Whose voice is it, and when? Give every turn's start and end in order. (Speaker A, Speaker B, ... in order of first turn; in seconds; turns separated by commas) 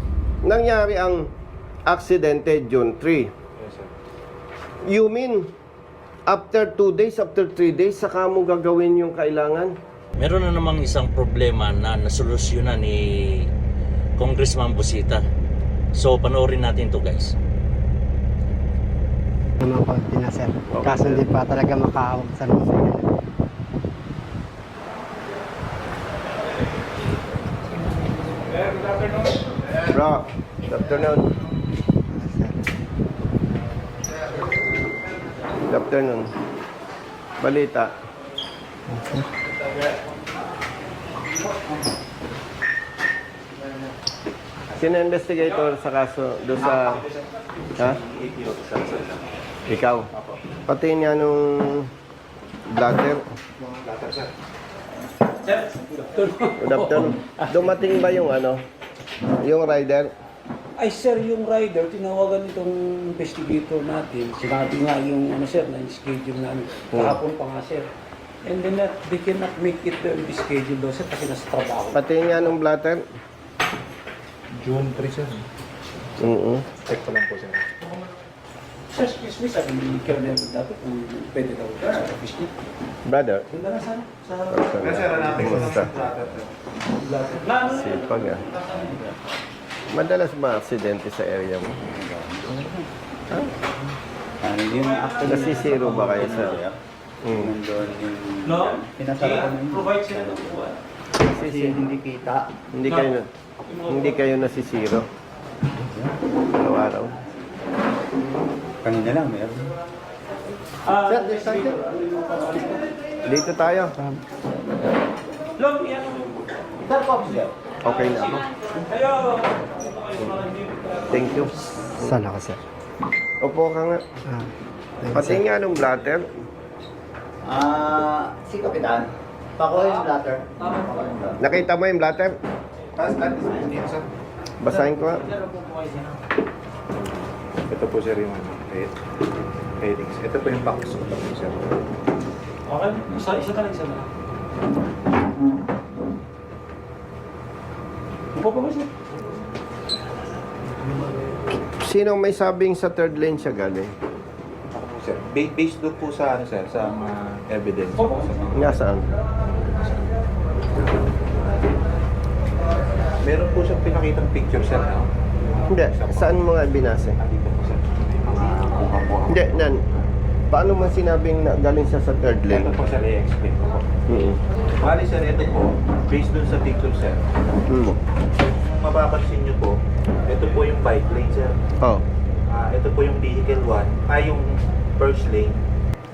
Speaker A: 0.4-1.3, Speaker A: 1.9-3.3, Speaker B: 3.6-3.9, Speaker A: 4.8-5.5, Speaker A: 6.3-9.8, Speaker C: 10.2-13.5, Speaker C: 14.2-15.2, Speaker C: 15.9-17.3, Speaker D: 19.6-23.1, Speaker A: 20.7-21.1, Speaker A: 29.9-31.3, Speaker D: 32.2-32.6, Speaker A: 35.7-36.3, Speaker A: 37.4-37.9, Speaker D: 38.9-39.2, Speaker A: 44.8-47.0, Speaker E: 48.1-49.1, Speaker A: 49.7-50.1, Speaker B: 50.1-50.4, Speaker A: 50.7-51.9, Speaker A: 52.7-53.2, Speaker B: 53.6-54.3, Speaker F: 55.4-57.7, Speaker A: 56.6-58.6, Speaker A: 59.4-60.1, Speaker F: 60.8-67.9, Speaker A: 66.9-67.2, Speaker F: 68.4-72.0, Speaker A: 71.9-73.0, Speaker B: 74.6-75.4, Speaker A: 76.2-76.7, Speaker B: 76.8-77.7, Speaker F: 78.9-82.5, Speaker A: 83.0-83.5, Speaker F: 83.5-84.7, Speaker A: 84.5-85.9, Speaker B: 84.8-86.5, Speaker F: 87.0-88.0, Speaker A: 87.6-88.5, Speaker E: 88.6-89.2, Speaker A: 89.9-91.8, Speaker E: 91.9-92.9, Speaker A: 93.3-93.5, Speaker E: 94.4-100.6, Speaker A: 95.2-96.6, Speaker A: 97.2-97.5, Speaker F: 99.8-100.7, Speaker E: 101.2-102.6, Speaker A: 101.3-101.8, Speaker A: 102.7-103.3, Speaker F: 103.7-104.1, Speaker A: 103.8-105.1, Speaker E: 105.7-106.1, Speaker A: 106.5-107.1, Speaker E: 108.8-109.7, Speaker F: 110.8-112.9, Speaker A: 113.2-114.0, Speaker F: 115.5-117.5, Speaker A: 117.8-118.4, Speaker F: 118.9-121.0, Speaker A: 120.2-120.4, Speaker A: 121.1-122.1, Speaker D: 122.0-122.6, Speaker A: 123.4-124.0, Speaker D: 124.2-124.5, Speaker D: 125.0-125.4, Speaker A: 125.1-126.3, Speaker E: 127.4-131.4, Speaker A: 131.4-132.3, Speaker B: 133.0-134.1, Speaker A: 134.6-135.3, Speaker F: 135.6-136.0, Speaker B: 136.9-138.9, Speaker B: 139.8-141.7, Speaker F: 142.7-144.1, Speaker F: 148.3-148.9, Speaker A: 151.8-153.9, Speaker B: 154.7-158.9, Speaker A: 158.5-159.1, Speaker B: 160.8-161.7, Speaker B: 163.2-165.1, Speaker B: 165.6-166.4, Speaker A: 165.7-167.2, Speaker B: 167.2-169.7, Speaker A: 169.3-169.8, Speaker A: 170.5-172.7, Speaker B: 172.5-173.9, Speaker A: 174.1-174.4, Speaker B: 174.8-177.2, Speaker A: 177.7-178.0, Speaker B: 178.4-181.6, Speaker A: 181.8-182.1, Speaker B: 182.5-185.6